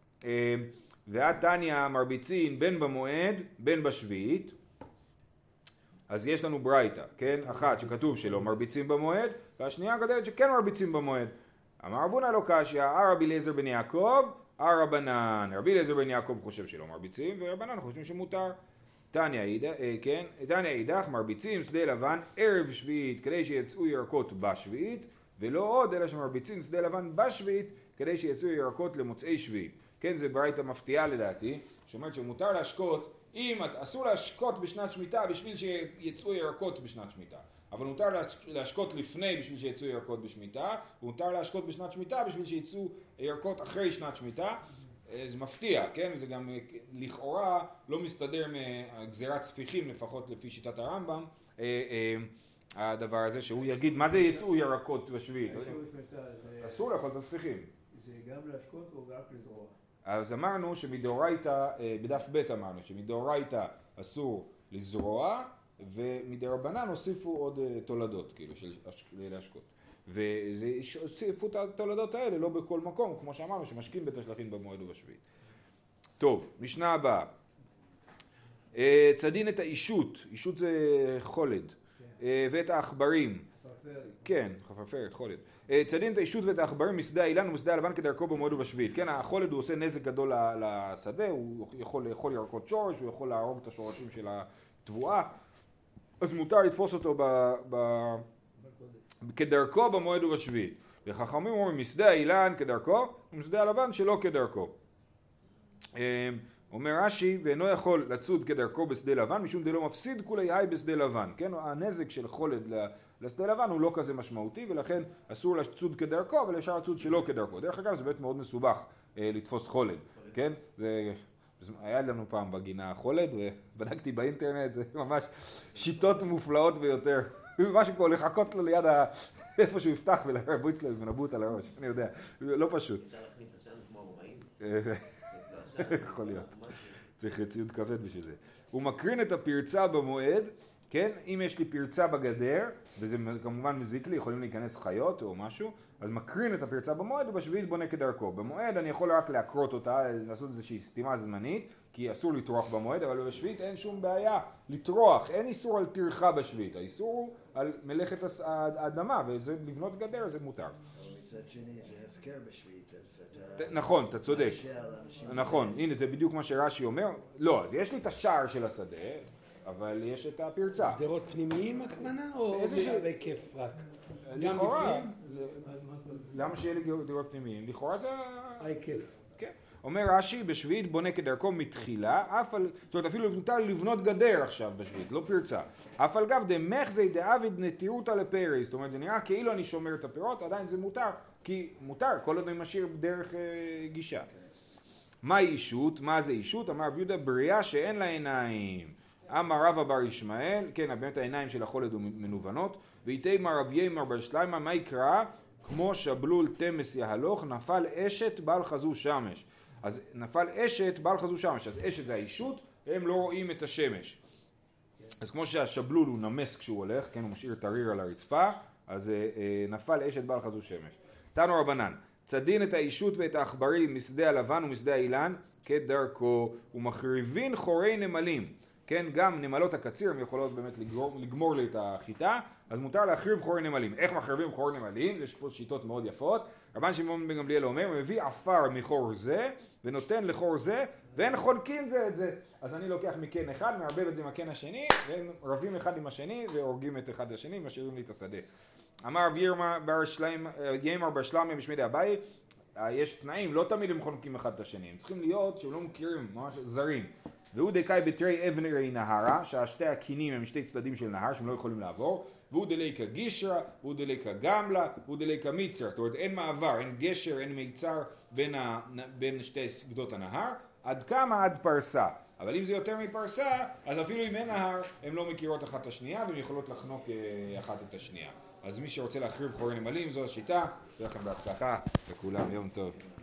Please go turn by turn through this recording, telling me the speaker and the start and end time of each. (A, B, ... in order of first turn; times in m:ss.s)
0:00.2-0:04.6 A
0:06.1-0:18.6 A
0:19.1-0:55.8 A
0:53.7-0:54.4 B
0:55.5-0:56.9 B
0:56.6-0:57.7 A
0:57.9-0:59.8 B
1:00.0-1:15.2 A
1:16.2-1:17.3 A
1:18.7-1:23.5 A
1:23.6-1:24.2 B
1:24.2-1:35.3 A
1:36.2-1:38.2 A
1:38.6-1:39.0 B
1:39.2-1:44.7 A
1:46.0-2:13.0 A
2:05.8-2:06.2 C
2:13.0-2:14.5 C
2:14.6-2:15.2 A
2:15.3-2:17.0 C
2:15.8-2:16.5 A
2:17.2-2:40.8 A
2:40.9-2:46.0 D
2:43.6-2:44.6 A
2:45.3-2:51.0 A
2:50.9-2:55.1 E
2:52.5-2:53.1 A
2:54.2-2:55.7 A
2:55.5-2:56.6 B
2:56.3-2:58.7 A
2:58.6-2:59.1 B
2:59.4-3:14.3 A
3:14.3-3:14.6 D
3:15.2-3:34.2 A
3:35.2-4:08.5 A
4:09.0-4:12.2 A
4:12.8-4:43.0 A